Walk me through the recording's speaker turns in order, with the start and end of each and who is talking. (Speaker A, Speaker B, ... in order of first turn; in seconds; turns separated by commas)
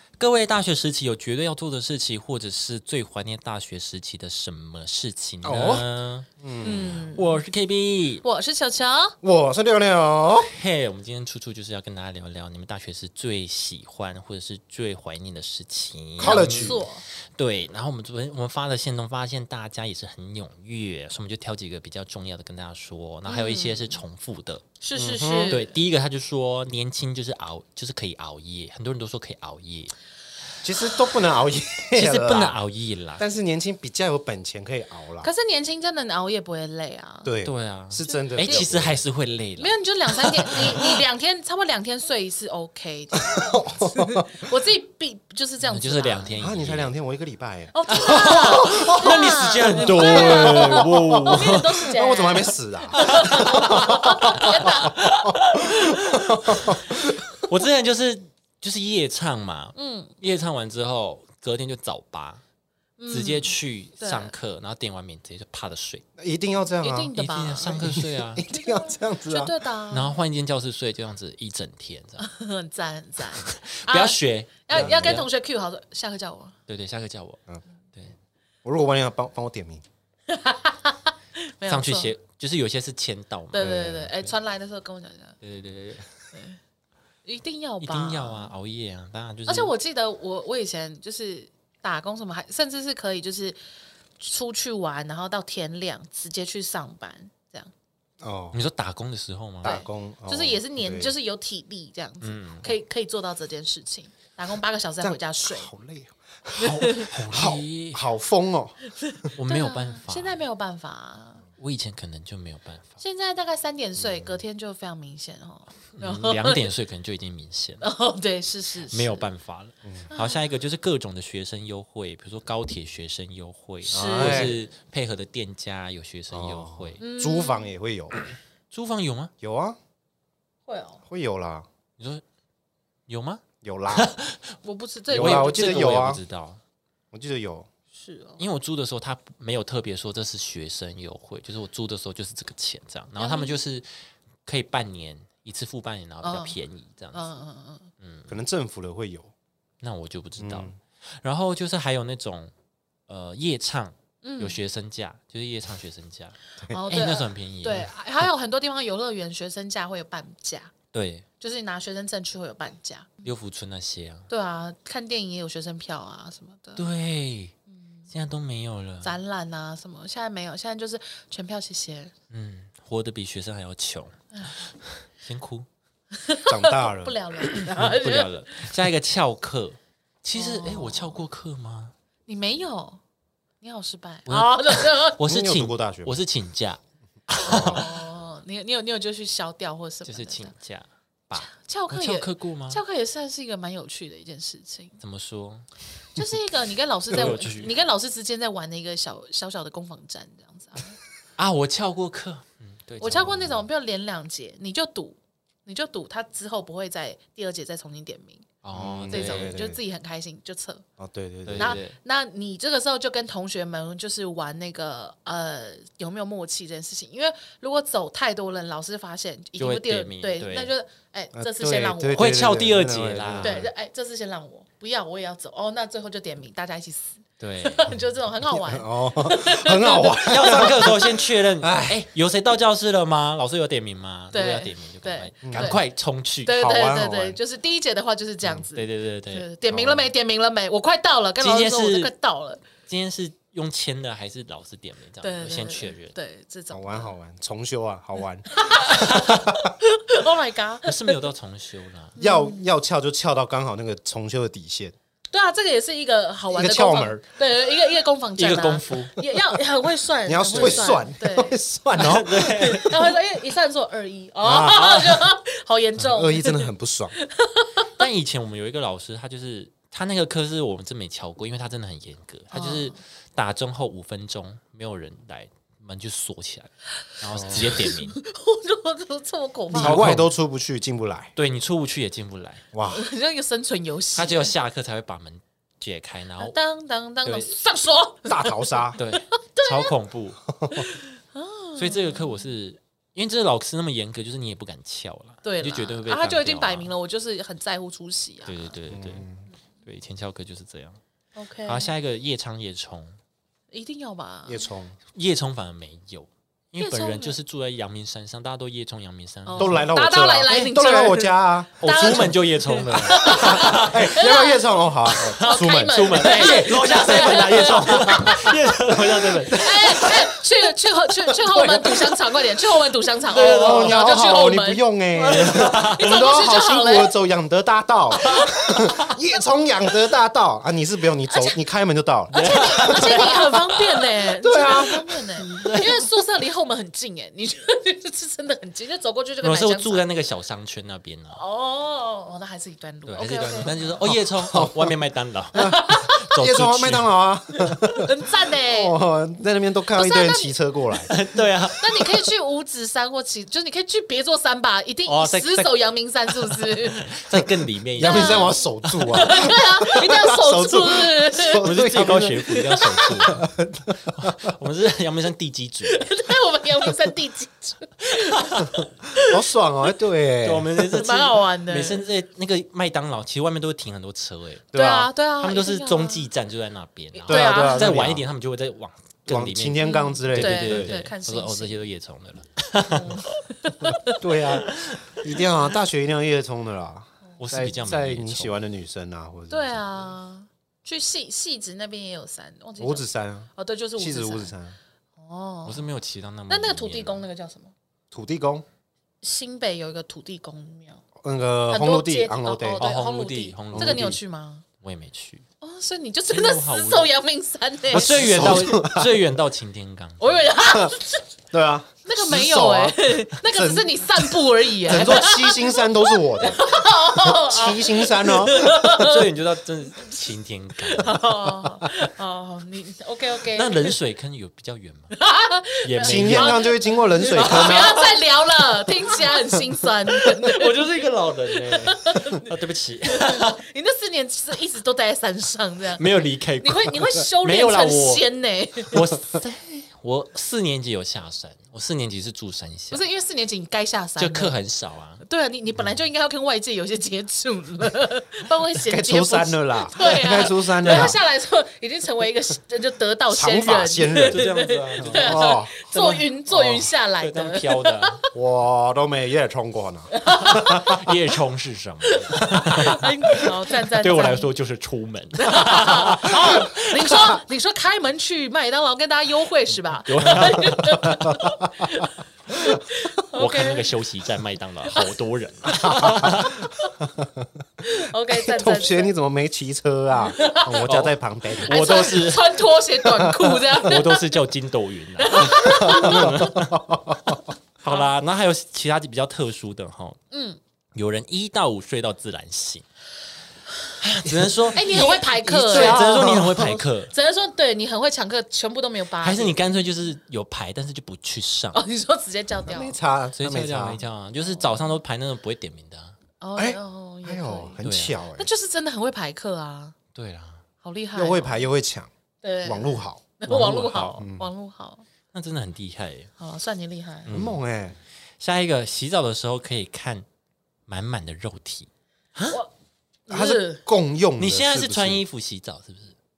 Speaker A: 0.2-6.3, Speaker B: 5.4-5.8, Speaker B: 6.4-7.0, Speaker C: 6.6-7.4, Speaker A: 7.2-8.2, Speaker C: 8.2-9.2, Speaker B: 9.2-10.5, Speaker A: 10.4-24.6, Speaker B: 16.2-16.8, Speaker C: 16.2-17.0, Speaker C: 23.3-24.0, Speaker C: 24.8-25.7, Speaker B: 25.0-25.6, Speaker A: 25.5-29.9, Speaker B: 30.6-32.6, Speaker A: 31.9-33.2, Speaker B: 33.2-35.3, Speaker C: 35.2-37.3, Speaker B: 37.2-39.0, Speaker A: 37.4-41.0, Speaker C: 38.1-38.7, Speaker C: 39.6-46.4, Speaker B: 43.3-44.3, Speaker A: 45.7-46.9, Speaker B: 46.4-57.4, Speaker C: 47.7-55.1, Speaker A: 47.9-51.9, Speaker A: 53.0-62.4, Speaker C: 59.8-60.1, Speaker C: 63.0-64.3, Speaker A: 63.1-66.0, Speaker B: 66.2-69.5, Speaker C: 66.8-67.8, Speaker A: 67.2-68.4, Speaker C: 68.5-70.2, Speaker A: 69.9-72.2, Speaker C: 72.2-76.5, Speaker A: 73.4-75.3, Speaker B: 74.7-75.2, Speaker A: 76.7-77.4, Speaker B: 78.6-79.8, Speaker C: 80.3-82.1, Speaker A: 81.7-84.1, Speaker C: 83.5-85.4, Speaker B: 83.6-84.1, Speaker A: 85.4-86.2, Speaker C: 86.3-86.6, Speaker C: 87.2-88.5, Speaker A: 87.8-89.7, Speaker C: 89.5-93.6, Speaker C: 94.2-97.7, Speaker B: 98.2-98.6, Speaker A: 98.5-99.8, Speaker B: 99.6-101.1, Speaker C: 99.6-105.7, Speaker A: 102.2-102.7, Speaker B: 105.0-108.9, Speaker A: 106.6-108.0, Speaker C: 106.6-107.1, Speaker C: 109.0-111.4, Speaker A: 109.4-110.4, Speaker A: 111.6-113.0, Speaker C: 113.0-116.6, Speaker B: 114.0-114.4, Speaker A: 116.0-117.8, Speaker C: 117.8-119.3, Speaker A: 118.9-127.0, Speaker C: 120.1-120.4, Speaker C: 123.9-124.6, Speaker B: 123.9-124.6, Speaker B: 126.3-128.2, Speaker C: 127.0-127.7, Speaker A: 128.7-129.3, Speaker B: 129.4-129.8, Speaker C: 130.7-131.0, Speaker B: 131.1-131.7, Speaker A: 133.1-134.4, Speaker B: 133.6-134.1, Speaker C: 134.6-135.9, Speaker B: 135.1-136.2, Speaker A: 135.1-136.6, Speaker B: 137.1-137.7, Speaker C: 137.9-138.4, Speaker A: 138.4-143.9, Speaker C: 143.2-143.6, Speaker A: 144.4-147.2, Speaker C: 146.2-146.6, Speaker C: 147.1-147.9, Speaker A: 148.0-148.4, Speaker B: 148.3-149.3, Speaker A: 149.8-152.5, Speaker B: 150.4-150.8, Speaker A: 153.1-156.4, Speaker C: 154.2-154.6, Speaker C: 156.7-160.7, Speaker A: 156.9-157.9, Speaker A: 160.9-161.2, Speaker C: 161.4-163.3, Speaker A: 163.2-164.3, Speaker C: 164.3-166.9, Speaker A: 166.8-167.5, Speaker A: 168.1-169.2, Speaker C: 169.0-172.1, Speaker A: 172.3-175.7, Speaker C: 176.1-178.7, Speaker B: 176.5-177.2, Speaker A: 177.5-181.9, Speaker C: 180.3-181.2, Speaker C: 182.3-183.0, Speaker C: 183.6-185.2, Speaker A: 184.3-188.0, Speaker B: 185.2-186.2, Speaker B: 187.4-187.9, Speaker C: 187.4-190.5, Speaker A: 190.1-192.8, Speaker C: 191.4-195.0, Speaker A: 195.0-195.7, Speaker C: 196.2-201.0, Speaker A: 197.1-197.7, Speaker A: 201.4-203.4, Speaker C: 203.0-208.5, Speaker A: 208.6-209.5, Speaker B: 208.8-209.8, Speaker C: 209.1-210.8, Speaker B: 211.0-211.8, Speaker A: 211.5-212.0, Speaker C: 211.6-222.3, Speaker A: 219.6-220.7, Speaker B: 221.3-223.7, Speaker A: 222.2-223.6, Speaker C: 223.4-231.1, Speaker A: 227.4-227.9, Speaker B: 228.4-232.1, Speaker A: 230.2-236.6, Speaker C: 234.3-235.8, Speaker B: 235.4-235.8, Speaker C: 236.4-242.6, Speaker B: 236.5-237.4, Speaker A: 238.8-239.5, Speaker B: 239.7-240.1, Speaker A: 241.4-242.1, Speaker A: 242.9-246.2, Speaker C: 245.2-247.1, Speaker B: 246.7-249.7, Speaker C: 248.5-251.2, Speaker A: 248.9-249.5, Speaker A: 250.8-252.2, Speaker B: 252.2-254.9, Speaker C: 252.2-252.7, Speaker C: 255.3-261.6, Speaker B: 256.5-257.2, Speaker A: 258.4-259.5, Speaker B: 260.3-262.9, Speaker A: 260.5-260.9, Speaker A: 262.0-263.1, Speaker C: 262.4-268.1, Speaker B: 264.4-264.9, Speaker A: 264.7-265.3, Speaker B: 266.0-267.1, Speaker A: 267.9-278.2, Speaker C: 272.5-273.0, Speaker B: 277.3-277.7, Speaker C: 277.4-280.1, Speaker A: 279.7-280.3, Speaker B: 279.7-281.3, Speaker A: 281.4-282.6, Speaker B: 282.7-283.0, Speaker C: 282.9-284.5, Speaker A: 284.1-286.6, Speaker C: 286.4-289.9, Speaker B: 288.3-289.0, Speaker A: 289.0-290.4, Speaker B: 290.5-290.9, Speaker C: 290.7-292.4, Speaker A: 291.8-296.9, Speaker C: 295.4-298.8, Speaker A: 298.5-299.3, Speaker B: 298.9-299.4, Speaker A: 299.9-301.0, Speaker C: 301.4-301.9, Speaker A: 301.7-303.2, Speaker C: 303.7-304.7, Speaker B: 304.5-305.0, Speaker A: 305.1-309.9, Speaker C: 306.8-307.4, Speaker C: 309.5-318.5, Speaker B: 309.6-320.4, Speaker A: 310.5-310.8, Speaker A: 311.8-314.2, Speaker A: 315.4-320.3, Speaker C: 319.4-327.1, Speaker B: 321.3-322.2, Speaker A: 323.3-324.2, Speaker B: 323.3-333.4, Speaker A: 325.3-326.1, Speaker A: 328.4-328.7, Speaker C: 331.3-331.6, Speaker C: 332.3-340.1, Speaker A: 332.3-334.1, Speaker B: 334.4-335.3, Speaker A: 335.4-336.1, Speaker A: 339.4-341.4, Speaker C: 341.3-343.9, Speaker A: 343.1-347.1, Speaker B: 343.4-345.0, Speaker C: 345.6-346.3, Speaker B: 345.6-348.1, Speaker C: 347.5-348.9, Speaker B: 348.7-351.1, Speaker C: 349.9-351.1, Speaker A: 351.1-352.1, Speaker C: 351.8-357.1, Speaker A: 355.1-355.8, Speaker A: 356.3-358.6, Speaker B: 357.9-362.6, Speaker C: 358.0-361.6, Speaker A: 361.6-363.4, Speaker C: 362.5-363.2, Speaker B: 363.3-364.5, Speaker A: 364.2-366.1, Speaker C: 365.9-369.4, Speaker A: 368.3-368.7, Speaker B: 369.2-370.7, Speaker A: 370.4-374.7, Speaker C: 370.8-372.1, Speaker B: 374.7-375.1, Speaker C: 374.7-376.3, Speaker A: 375.4-383.2, Speaker C: 377.1-378.0, Speaker B: 377.3-378.3, Speaker B: 379.3-381.0, Speaker C: 379.8-381.8, Speaker C: 382.8-384.2, Speaker B: 384.1-389.8, Speaker A: 387.4-388.5, Speaker C: 389.5-394.5, Speaker B: 392.8-394.8, Speaker C: 395.2-395.9, Speaker A: 395.6-397.2, Speaker C: 396.5-397.7, Speaker B: 398.1-398.7, Speaker C: 399.2-401.0, Speaker B: 401.2-402.9, Speaker C: 401.7-404.6, Speaker A: 402.8-404.2, Speaker B: 403.7-404.2, Speaker A: 404.8-405.4, Speaker C: 405.6-408.5, Speaker A: 406.3-407.1, Speaker A: 407.9-410.5, Speaker B: 407.9-409.2, Speaker C: 410.2-411.3, Speaker B: 410.6-410.9, Speaker B: 411.5-416.6, Speaker C: 412.1-419.3, Speaker B: 417.2-418.7, Speaker A: 418.7-421.6, Speaker C: 420.8-424.0, Speaker A: 423.5-425.1, Speaker C: 425.1-432.5, Speaker A: 425.8-426.7, Speaker B: 426.0-428.0, Speaker A: 427.3-428.1, Speaker A: 430.1-433.6, Speaker C: 433.1-439.0, Speaker A: 436.0-438.2, Speaker A: 438.8-443.0, Speaker C: 442.9-444.6, Speaker A: 444.2-445.2, Speaker C: 445.2-458.3, Speaker B: 448.9-451.2, Speaker A: 450.9-451.1, Speaker B: 453.3-455.7, Speaker A: 454.2-458.2, Speaker B: 458.3-461.0, Speaker C: 460.1-461.0, Speaker A: 460.6-467.3, Speaker C: 462.1-464.5, Speaker C: 465.4-473.9, Speaker A: 470.1-471.1, Speaker B: 471.0-471.5, Speaker A: 473.3-476.6, Speaker C: 475.7-476.3, Speaker B: 475.8-477.6, Speaker C: 477.8-479.1, Speaker B: 478.3-482.0, Speaker C: 480.2-480.8, Speaker A: 480.8-482.7, Speaker C: 481.6-484.4, Speaker B: 483.0-483.7, Speaker A: 483.8-486.9, Speaker C: 485.2-486.6, Speaker B: 485.4-487.4, Speaker A: 487.8-490.2, Speaker C: 487.9-488.1, Speaker C: 490.3-490.6, Speaker A: 490.9-492.9, Speaker A: 494.0-497.1, Speaker B: 494.3-496.8, Speaker C: 494.7-496.5, Speaker C: 497.1-499.6, Speaker A: 499.2-501.8, Speaker C: 501.7-503.0, Speaker B: 502.6-504.0, Speaker A: 503.4-506.2, Speaker C: 504.4-505.0, Speaker C: 506.4-507.8, Speaker B: 506.6-508.5, Speaker A: 507.8-508.2, Speaker C: 508.3-510.0, Speaker A: 510.1-510.6, Speaker C: 510.8-511.7, Speaker B: 511.1-512.1, Speaker C: 512.4-515.0, Speaker B: 512.6-514.5, Speaker A: 513.5-514.2, Speaker A: 515.3-516.3, Speaker C: 516.4-517.3, Speaker A: 517.3-517.6, Speaker B: 517.3-518.0, Speaker A: 518.4-520.3, Speaker A: 520.9-522.6, Speaker C: 523.3-523.8, Speaker B: 523.3-525.2, Speaker A: 524.4-526.1